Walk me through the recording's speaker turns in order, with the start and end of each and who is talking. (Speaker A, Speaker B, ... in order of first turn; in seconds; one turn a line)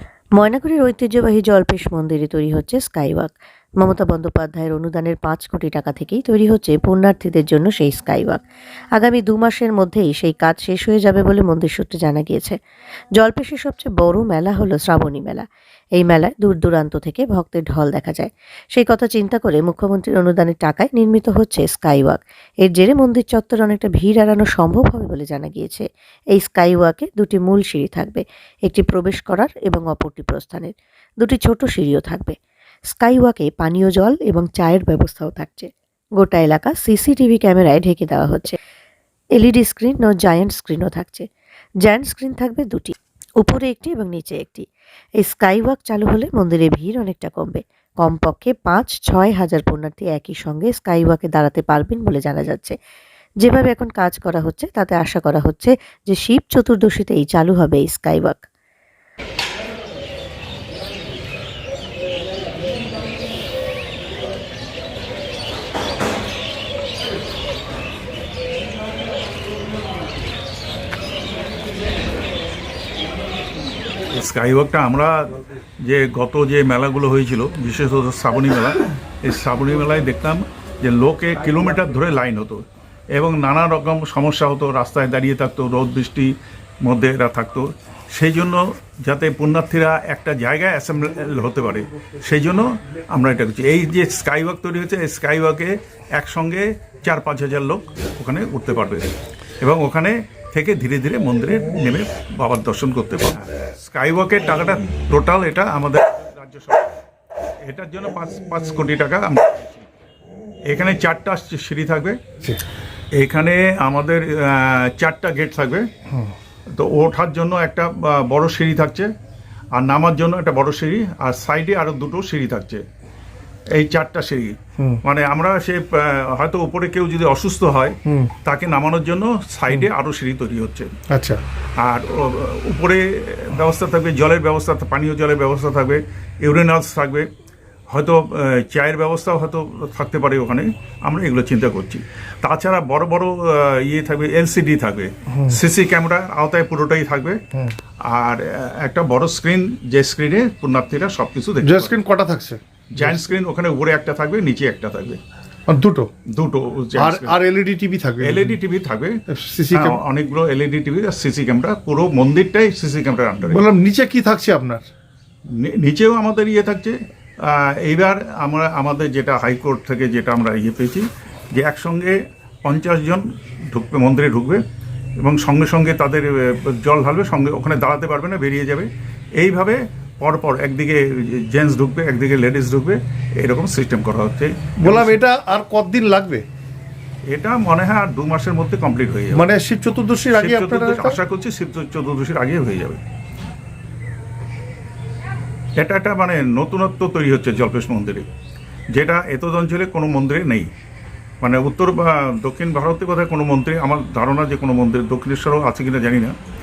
Speaker A: 0.4-8.4
Speaker A: 8.9-12.6
Speaker A: 13.2-15.4
Speaker A: 16.0-32.3
Speaker A: 32.9-38.6
Speaker A: 39.4-41.3
Speaker A: 41.8-44.6
Speaker A: 45.2-52.7
Speaker A: 53.4-58.4
Speaker B: 74.1-82.6
Speaker B: 83.1-86.3
Speaker B: 86.8-99.1
Speaker B: 99.6-106.9
Speaker B: 107.7-109.9
Speaker B: 110.7-112.2
Speaker B: 113.2-115.8
Speaker B: 116.7-119.1
Speaker B: 119.8-122.8
Speaker B: 123.7-130.9
Speaker C: 128.1-128.3
Speaker C: 131.1-131.4
Speaker B: 131.8-137.3
Speaker B: 137.9-147.4
Speaker B: 148.0-151.9
Speaker C: 151.6-153.2
Speaker B: 152.9-155.2
Speaker C: 155.7-156.1
Speaker B: 156.3-157.4
Speaker C: 156.9-158.6
Speaker B: 158.2-159.2
Speaker C: 159.3-160.0
Speaker B: 159.7-163.6
Speaker C: 163.4-164.8
Speaker B: 165.5-174.6
Speaker B: 175.2-185.2
Speaker C: 184.8-186.4
Speaker B: 187.3-189.4
Speaker C: 189.3-191.2
Speaker B: 190.3-193.0
Speaker B: 195.8-198.2
Speaker B: 198.9-200.7
Speaker B: 201.4-206.3